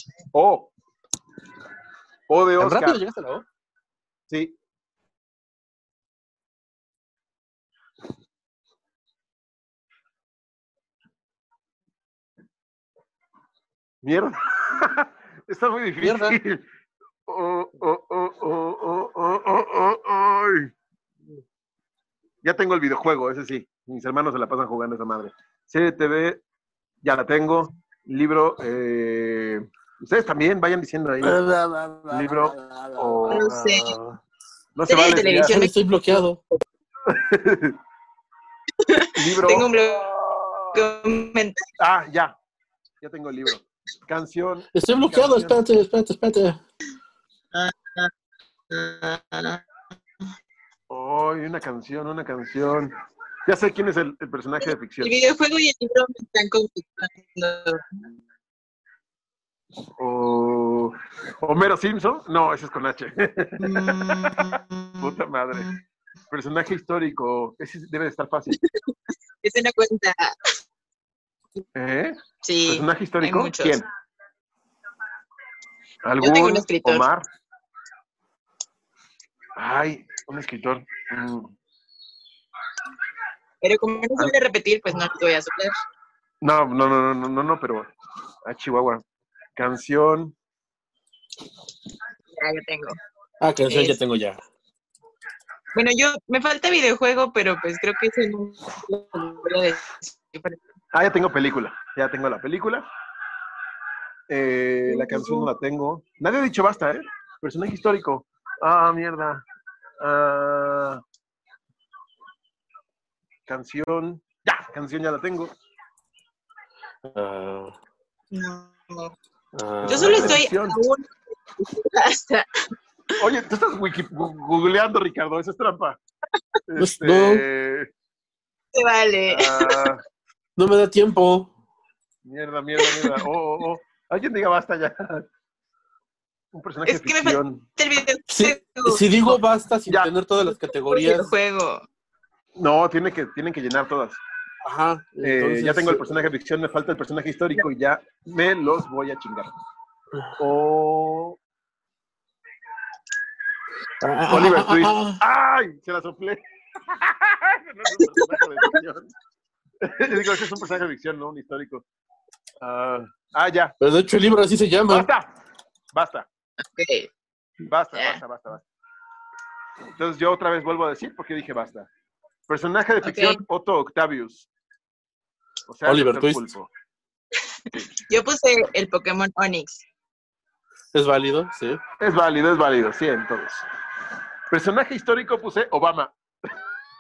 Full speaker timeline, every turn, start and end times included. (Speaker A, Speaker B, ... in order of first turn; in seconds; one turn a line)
Speaker A: 0.3-0.7
Speaker A: 2.3-3.0
Speaker B: 2.6-3.5
Speaker A: 4.3-4.5
Speaker A: 14.0-16.6
Speaker B: 16.0-16.4
Speaker A: 17.3-20.7
Speaker A: 22.4-26.4
Speaker A: 27.0-31.4
Speaker B: 31.2-33.4
Speaker A: 32.1-33.9
Speaker C: 33.3-34.0
Speaker B: 33.9-34.2
Speaker A: 34.8-35.6
Speaker C: 34.9-35.7
Speaker B: 35.4-36.4
Speaker A: 37.0-37.8
Speaker C: 38.8-40.0
Speaker A: 39.1-40.8
Speaker C: 40.7-41.6
Speaker A: 41.8-42.4
Speaker A: 43.0-45.6
Speaker B: 44.8-46.6
Speaker C: 47.5-48.1
Speaker C: 48.7-49.6
Speaker A: 50.9-53.0
Speaker A: 53.5-55.1
Speaker C: 55.0-57.9
Speaker A: 60.0-65.7
Speaker C: 63.6-65.8
Speaker A: 66.3-68.6
Speaker C: 69.4-70.5
Speaker A: 71.8-73.8
Speaker C: 72.4-73.8
Speaker A: 76.0-77.3
Speaker C: 76.2-77.1
Speaker A: 79.6-81.5
Speaker C: 83.6-85.8
Speaker A: 86.4-87.9
Speaker A: 88.5-89.0
Speaker A: 89.6-90.3
Speaker C: 92.4-93.0
Speaker B: 93.4-94.4
Speaker C: 93.7-94.0
Speaker C: 95.7-100.6
Speaker A: 100.9-102.9
Speaker A: 104.3-109.4
Speaker C: 104.9-105.5
Speaker A: 110.0-111.0
Speaker A: 113.5-115.5
Speaker B: 117.0-117.7
Speaker C: 118.3-119.2
Speaker B: 119.5-120.4
Speaker A: 119.8-120.8
Speaker C: 119.9-122.5
Speaker A: 123.2-126.0
Speaker A: 126.7-127.9
Speaker B: 126.8-127.5
Speaker C: 128.7-129.9
Speaker A: 129.3-130.0
Speaker B: 130.6-131.5
Speaker A: 132.2-135.3
Speaker C: 132.8-133.2
Speaker A: 136.5-137.7
Speaker C: 136.9-139.3
Speaker B: 138.3-141.3
Speaker C: 140.7-141.9
Speaker A: 142.6-144.2
Speaker B: 144.6-146.0
Speaker A: 145.2-149.5
Speaker A: 150.4-151.4
Speaker B: 154.0-155.2
Speaker A: 154.3-159.1
Speaker C: 158.0-158.7
Speaker A: 159.8-161.8
Speaker A: 162.6-163.8
Speaker B: 163.8-165.1
Speaker A: 164.9-165.3
Speaker A: 165.9-166.3
Speaker C: 166.7-167.1
Speaker A: 167.6-168.7
Speaker C: 167.9-168.2
Speaker A: 170.0-171.9
Speaker A: 172.5-174.5
Speaker C: 173.0-173.4
Speaker A: 175.7-176.7
Speaker B: 175.9-176.5
Speaker C: 178.0-179.8
Speaker B: 180.9-181.8
Speaker A: 182.0-183.7
Speaker A: 184.5-186.1